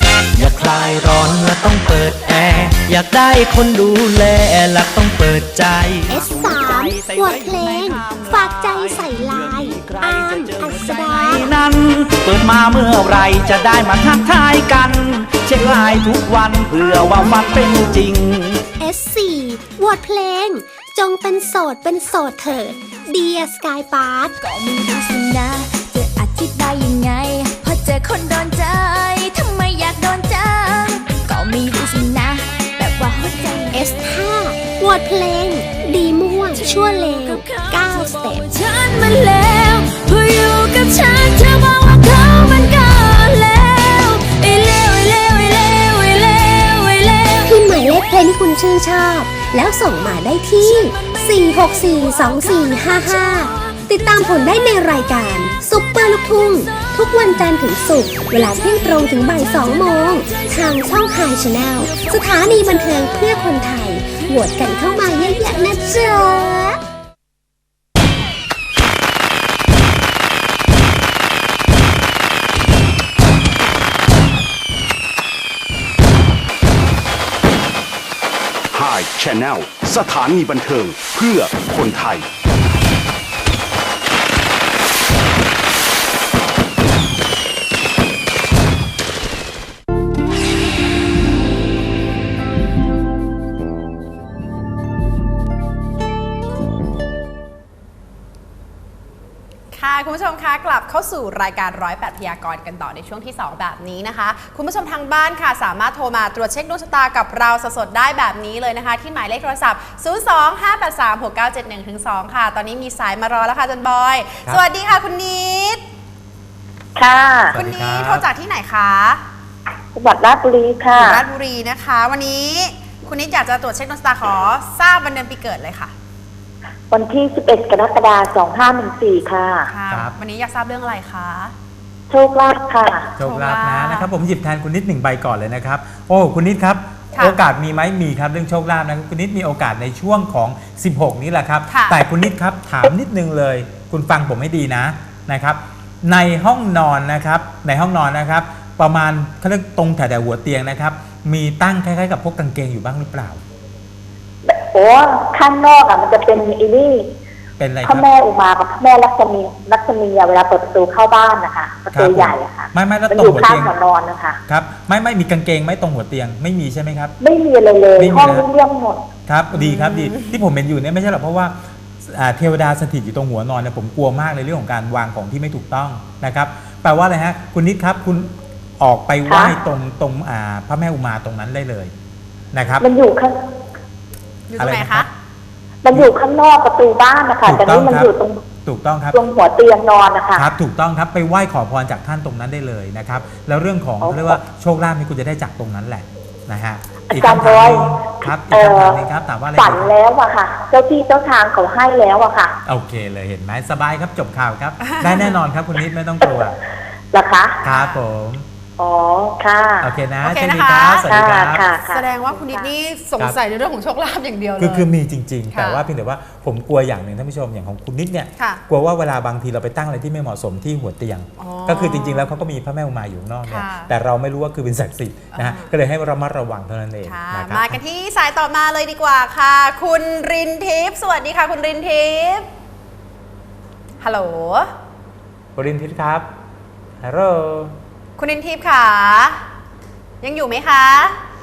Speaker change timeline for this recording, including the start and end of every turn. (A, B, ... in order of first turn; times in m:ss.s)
0:00.4-0:18.6 A
0:06.1-0:11.5 B
0:18.8-0:24.3 B
0:24.4-0:34.0 C
0:33.7-0:38.4 B
0:36.4-0:48.1 C
0:47.4-1:06.8 B
0:50.6-0:57.2 C
0:58.6-1:01.4 C
1:01.9-1:03.4 C
1:04.8-1:06.2 C
1:18.7-1:22.3 D
1:39.7-1:55.8 E
1:57.0-1:57.5 F
1:57.5-1:58.3 G
1:57.5-1:59.2 E
1:59.9-2:01.2 F
2:00.9-2:05.9 E
2:06.9-2:09.7 F
2:09.7-2:11.5 E
2:12.1-2:13.1 F
2:13.2-2:33.4 G
2:13.2-2:14.1 E
2:17.1-2:17.4 E
2:21.7-2:22.0 E
2:34.4-2:37.2 F
2:37.6-2:38.1 G
2:37.8-2:44.4 F
2:41.9-2:43.8 G
2:44.5-2:47.2 G
2:47.2-2:49.0 F
2:48.0-2:48.5 G
2:49.3-3:01.9 G
2:49.5-2:50.4 E
2:59.2-2:59.6 F
3:02.5-3:02.9 G
3:02.8-3:03.4 F
3:04.5-3:05.1 E
3:04.6-3:05.1 G
3:05.8-3:08.4 F
3:07.4-3:09.2 G
3:09.1-3:10.5 F
3:10.3-3:19.9 G
3:14.0-3:14.4 F
3:17.1-3:22.6 F
3:22.6-3:26.6 G
3:24.8-3:25.4 E
3:26.2-3:26.5 F
3:27.1-3:27.6 F
3:27.6-3:28.4 G
3:27.6-3:28.0 E
3:28.8-3:29.9 F
3:29.8-3:31.7 G
3:30.2-3:31.2 E
3:31.1-3:32.7 F
3:31.8-3:34.9 E
3:34.6-3:47.8 G
3:35.5-3:35.8 E
3:38.4-3:38.6 E
3:41.4-3:42.3 E
3:43.4-3:43.9 E
3:45.3-3:45.7 E
3:47.0-3:52.5 E
3:54.0-3:54.7 E
3:55.5-3:56.3 G
3:57.0-3:57.8 G
3:58.2-3:59.4 E
4:00.2-4:01.2 E